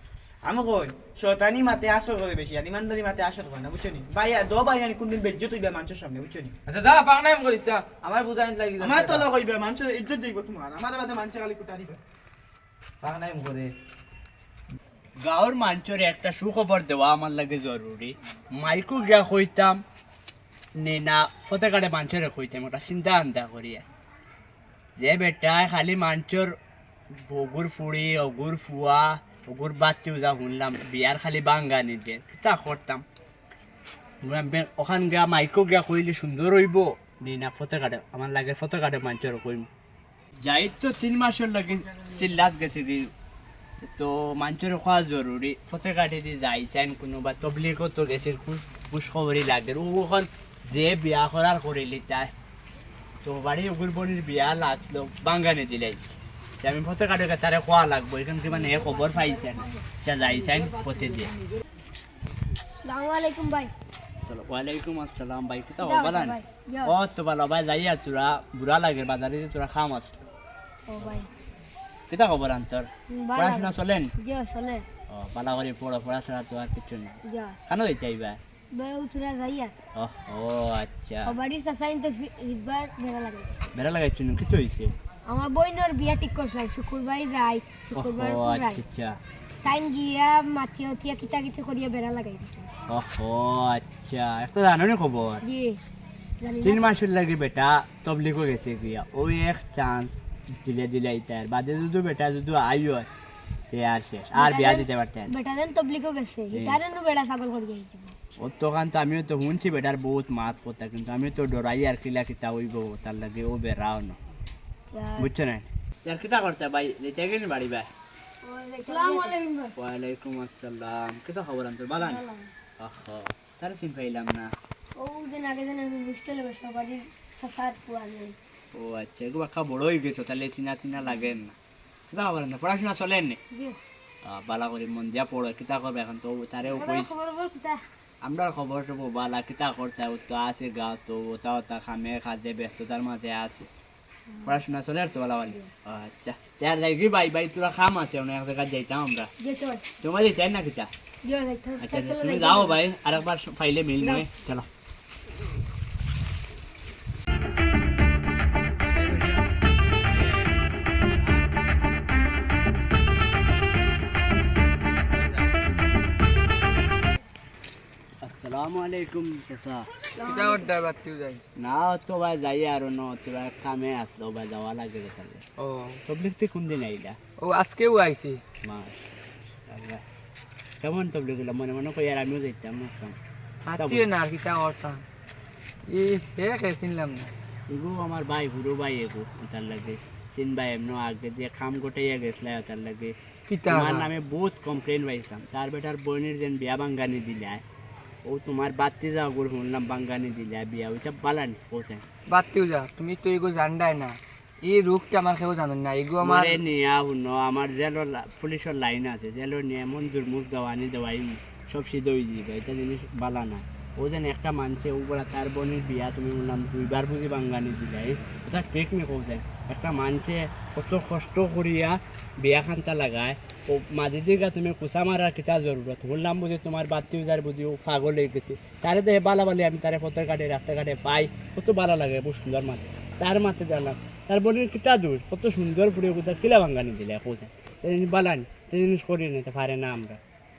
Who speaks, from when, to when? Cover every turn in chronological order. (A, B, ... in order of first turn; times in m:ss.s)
0:00.4-0:06.6 A
0:06.7-0:09.3 B
0:08.8-0:12.0 A
0:13.0-0:13.7 B
0:15.2-0:19.8 C
0:20.8-0:23.8 C
0:25.0-0:26.6 C
0:27.1-0:33.0 C
0:34.2-0:39.7 C
0:40.4-0:43.1 C
0:43.8-0:52.3 C
0:53.2-1:01.4 C
1:02.8-1:03.7 D
1:04.2-1:10.2 C
1:05.8-1:07.0 D
1:10.9-1:11.3 D
1:12.1-1:14.1 C
1:13.1-1:14.9 D
1:15.1-1:18.4 C
1:17.2-1:17.6 D
1:18.7-1:19.7 D
1:20.0-1:21.4 C
1:21.2-1:23.7 D
1:23.8-1:25.0 C
1:25.3-1:28.8 D
1:28.0-1:29.2 C
1:29.6-1:32.7 D
1:32.9-1:35.4 C
1:35.4-1:35.8 D
1:36.4-1:36.9 D
1:36.6-1:43.1 C
1:43.7-1:45.3 C
1:44.3-1:48.2 D
1:46.5-1:46.8 C
1:48.4-1:54.2 C
1:54.9-1:55.3 D
1:55.2-1:57.9 C
1:58.4-1:59.7 D
1:59.8-2:02.2 C
2:02.0-2:02.5 D
2:02.8-2:04.5 C
2:05.0-2:08.4 D
2:08.7-2:11.6 C
2:12.1-2:13.4 C
2:13.5-2:13.8 D
2:14.2-2:17.1 C
2:16.6-2:17.8 D
2:18.2-2:23.7 C
2:24.3-2:24.6 D
2:24.4-2:29.3 C
2:29.4-2:29.8 D
2:30.0-2:30.9 C
2:31.2-2:32.8 D
2:31.8-2:34.7 C
2:34.0-2:34.2 D
2:38.9-2:39.5 C
2:40.1-2:40.6 C
2:41.2-2:41.5 C
2:45.2-2:45.5 C
2:48.2-2:49.9 C
2:50.1-2:50.7 D
2:50.2-2:51.4 E
2:51.6-2:55.4 C
2:55.6-2:56.0 E
2:56.1-2:57.2 C
2:57.4-2:58.4 E
2:58.6-3:00.0 C
3:00.8-3:03.2 C
3:03.7-3:05.0 E
3:03.8-3:04.1 C
3:05.9-3:07.3 E
3:07.7-3:13.2 C
3:13.5-3:14.1 E
3:13.7-3:17.6 C
3:18.2-3:22.0 C
3:22.3-3:26.6 E
3:26.2-4:00.2 C